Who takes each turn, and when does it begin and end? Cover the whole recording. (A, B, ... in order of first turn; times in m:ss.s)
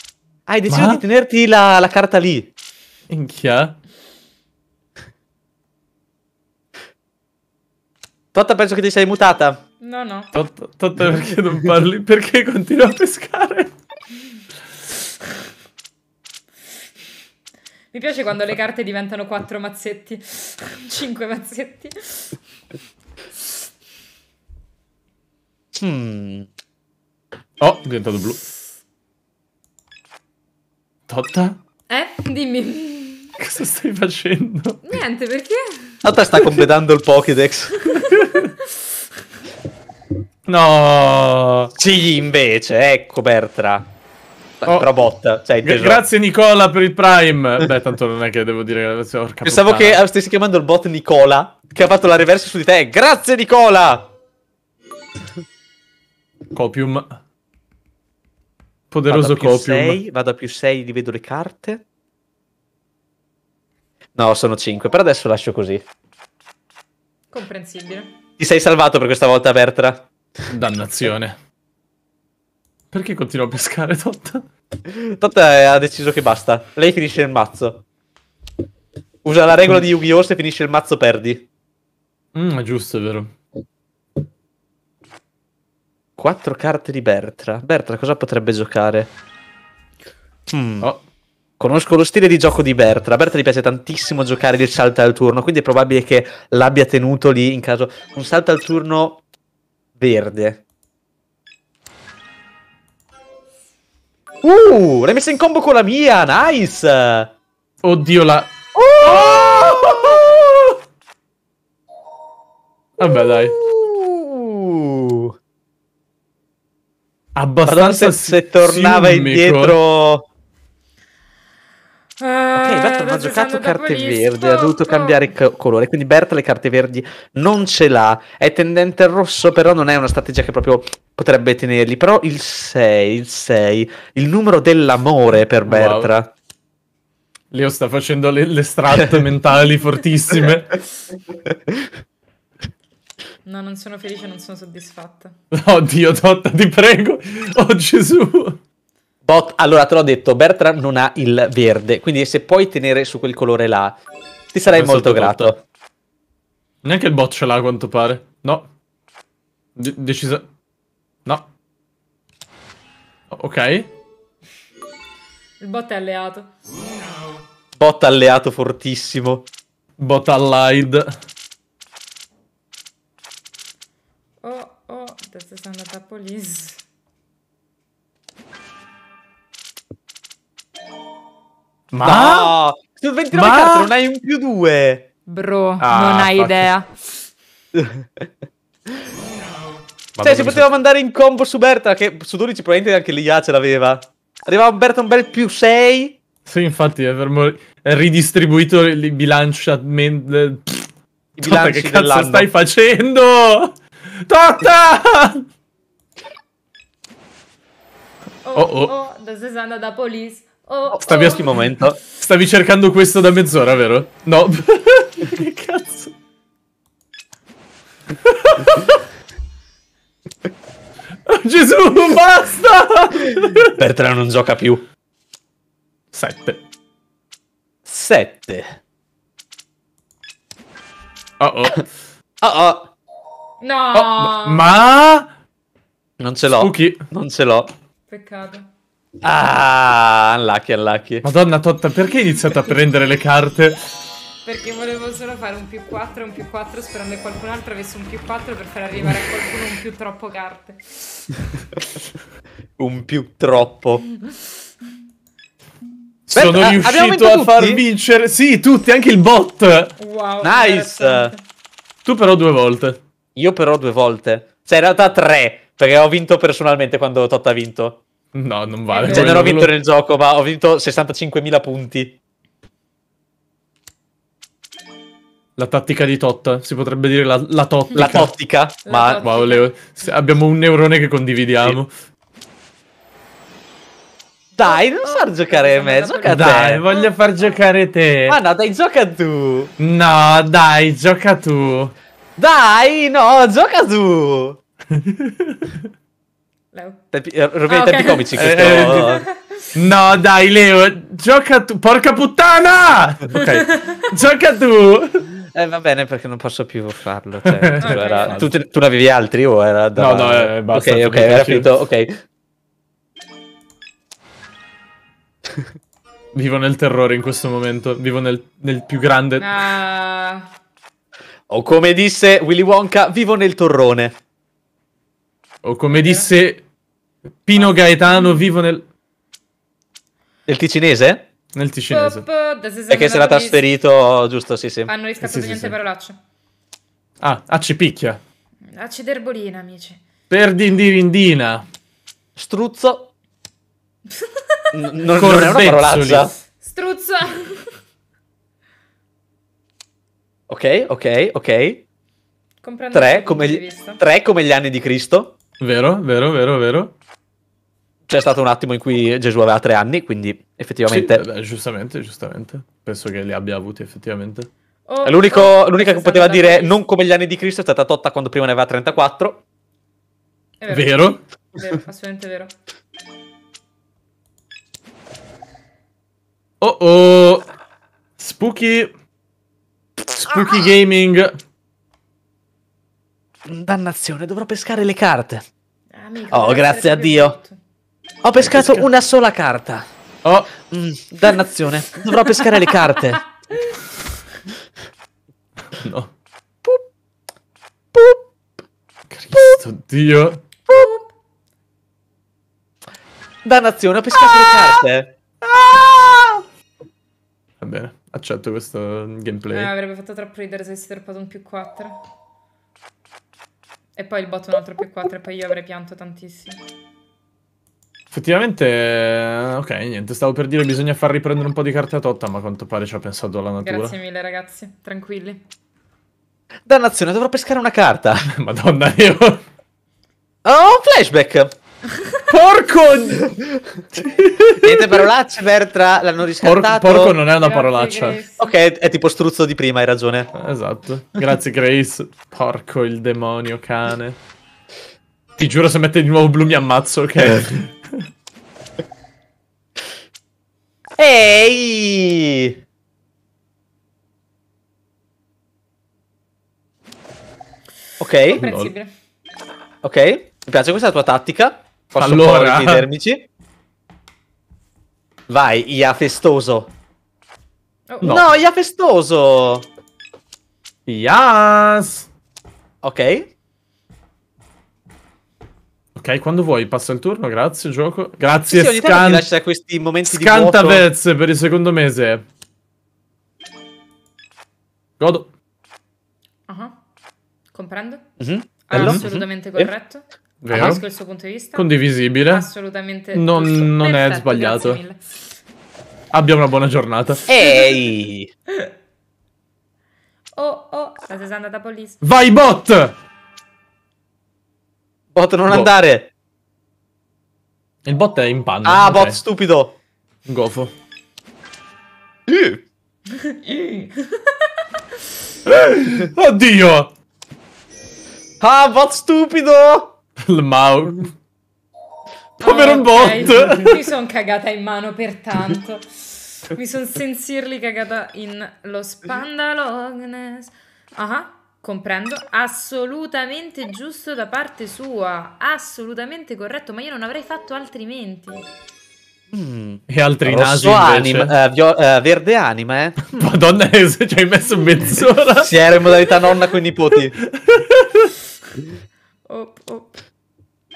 0:00.5-0:02.5 A
0:00.7-0:01.0 B
0:03.1-0:03.8 B
0:08.3-0:09.6 A
0:09.8-0:10.3 C
0:10.3-0:13.7 B
0:17.9-0:22.4 C
0:25.7-0:26.5 A
0:27.6-0:28.4 B
0:31.1-0:31.6 B
0:31.9-0:33.3 C
0:33.4-0:34.8 B
0:34.8-0:36.0 C
0:36.0-0:37.9 A
0:37.9-0:38.5 B
0:37.9-0:38.8 C
0:40.5-0:41.7 B
0:41.8-0:43.9 A
0:44.6-0:46.0 A
0:45.6-0:50.0 B
0:49.4-0:54.1 A
0:56.5-0:57.2 B
0:58.9-1:00.0 B
0:59.1-1:01.8 A
1:04.2-1:05.8 A
1:07.3-1:08.1 C
1:08.4-1:10.1 A
1:10.5-1:11.4 B
1:12.9-1:14.5 B
1:14.8-1:17.8 A
1:19.2-1:21.5 A
1:22.4-1:23.3 B
1:26.2-1:29.1 A
1:30.5-1:30.9 A
1:31.6-1:39.2 A
1:40.0-1:40.6 A
1:44.4-1:47.3 A
1:47.8-1:48.5 B
1:48.7-1:50.4 A
1:49.0-1:50.8 B
1:53.0-1:53.6 B
1:53.0-1:55.4 A
1:57.4-1:59.8 B
1:57.7-2:00.3 A
2:02.2-2:05.3 C
2:02.6-2:16.3 A
2:15.7-2:16.1 B
2:17.5-2:20.8 B
2:23.4-2:25.3 C
2:25.5-2:28.6 B
2:29.2-2:34.0 A
2:34.5-2:35.6 A
2:34.6-2:35.5 B
2:36.8-2:38.7 B
2:39.8-2:40.4 B
2:43.3-2:43.9 B
2:45.6-2:46.5 C
2:47.8-2:49.5 A
2:50.0-2:51.1 B
2:54.4-2:56.8 C
3:01.9-3:02.5 B
3:02.0-3:05.1 A
3:03.3-3:03.9 B
3:05.3-3:06.9 C
3:05.8-3:06.7 B
3:07.7-3:08.3 A
3:10.2-3:10.6 B
3:10.2-3:16.2 A
3:16.5-3:25.5 B
3:21.4-3:22.5 A
3:28.4-3:31.7 C
3:28.6-3:28.9 B
3:30.9-3:32.0 A
3:32.1-3:36.1 B
3:38.2-3:39.0 B
3:41.3-3:43.8 B
3:43.8-3:44.8 A
3:46.1-3:46.6 B
3:47.8-3:48.8 A
3:51.4-3:51.9 B
3:52.4-3:52.9 A
3:53.6-3:54.7 C
3:53.9-3:55.3 B
3:56.2-3:57.7 A
3:56.5-3:57.0 B
3:58.1-3:58.7 C
3:59.2-4:01.2 A
4:01.2-4:03.8 B
4:04.4-4:11.3 C
4:12.8-4:14.0 A
4:16.3-4:20.0 B
4:16.4-4:17.8 A
4:20.0-4:21.4 C
4:20.4-4:21.3 A
4:22.1-4:23.0 B
4:23.4-4:28.0 A
4:28.3-4:29.7 B
4:28.9-4:29.3 C
4:29.0-4:32.2 A
4:35.6-4:38.3 B
4:38.0-4:39.2 A
4:38.8-4:39.7 C
4:39.2-4:41.9 B
4:44.6-4:46.8 A
4:44.6-4:47.6 C
4:46.3-4:48.4 B
4:48.3-4:49.7 A
4:49.8-4:51.9 B
4:52.4-4:54.6 A
4:54.9-4:55.8 B
4:56.7-4:57.0 C
4:57.1-4:59.2 A
4:57.7-4:59.7 C
4:58.4-4:59.2 B
4:59.7-5:05.3 B
5:03.3-5:04.0 C
5:05.5-5:12.2 A
5:07.4-5:08.6 B
5:07.8-5:08.4 C
5:10.0-5:11.7 B
5:16.3-5:19.5 B
5:19.4-5:20.5 C
5:21.5-5:24.2 A
5:25.6-5:26.6 B
5:25.9-5:26.3 C
5:27.4-5:28.8 B
5:27.6-5:28.4 C
5:30.5-5:31.3 A
5:31.6-5:32.2 B
5:31.9-5:33.6 C
5:32.9-5:34.9 A
5:34.9-5:36.2 C
5:35.2-5:35.8 B
5:37.2-5:38.2 B
5:38.7-5:40.0 C
5:40.3-5:41.6 B
5:42.4-5:43.1 A
5:44.1-5:44.7 C
5:44.7-5:46.3 A
5:45.1-5:46.3 B
5:46.5-5:47.7 C
5:50.5-5:51.8 A
5:52.6-5:54.0 C
5:52.9-5:55.4 A
5:55.6-5:56.9 B
5:58.1-6:01.2 A
6:00.9-6:04.5 B
6:04.9-6:06.8 C
6:05.0-6:09.4 A
6:10.6-6:12.5 C
6:10.7-6:11.2 B
6:16.6-6:17.4 B
6:18.2-6:18.9 B
6:20.1-6:21.4 B
6:23.5-6:25.4 A
6:26.0-6:27.6 C
6:26.3-6:27.4 A
6:28.2-6:29.8 A
6:28.4-6:28.9 B
6:30.6-6:33.2 A
6:35.7-6:36.1 B
6:37.9-6:38.2 A
6:39.1-6:40.4 B
6:40.7-6:41.1 C
6:43.4-6:46.4 A
6:47.6-6:49.7 B
6:49.5-6:52.0 C
6:54.0-6:56.6 C
6:58.1-7:03.9 B
7:03.6-7:05.4 C
7:06.7-7:08.3 A
7:08.3-7:09.4 B
7:10.4-7:11.5 A
7:12.3-7:13.4 B
7:14.0-7:15.0 B
7:14.6-7:17.2 A
7:16.4-7:18.2 B
7:17.4-7:18.5 C
7:18.4-7:20.3 A
7:20.4-7:24.2 B
7:25.4-7:28.0 B
7:31.0-7:32.6 A
7:38.0-7:38.4 A
7:38.2-7:38.9 C
7:38.4-7:38.7 B
7:39.8-7:43.3 A
7:41.9-7:42.9 B
7:45.3-7:46.7 A
7:47.9-7:48.2 C
7:48.0-7:49.7 A
7:50.9-7:52.1 B
7:52.8-7:53.3 A
7:56.0-7:59.3 B
7:58.5-8:00.8 A
8:00.1-8:02.2 B
8:05.0-8:05.3 B
8:06.5-8:06.8 C
8:07.5-8:08.0 C
8:08.2-8:09.0 A
8:08.7-8:15.0 C
8:08.7-8:09.2 B
8:10.4-8:10.8 B
8:11.6-8:12.5 B
8:13.1-8:14.8 B
8:16.1-8:17.3 B
8:17.3-8:18.3 A
8:17.4-8:17.9 C
8:20.4-8:22.0 C
8:22.0-8:23.0 B
8:25.1-8:26.1 A
8:27.9-8:29.2 B
8:28.6-8:29.8 A
8:30.3-8:30.7 B
8:32.3-8:32.6 A
8:33.1-8:34.6 C
8:35.5-8:36.9 B
8:38.4-8:40.0 A
8:40.2-8:41.1 B
8:42.4-8:58.5 C
8:42.4-8:43.8 B
8:59.3-9:03.3 A
8:59.9-9:01.3 B
9:03.0-9:05.5 B
9:05.4-9:07.2 A
9:07.2-9:08.1 B
9:09.3-9:09.9 C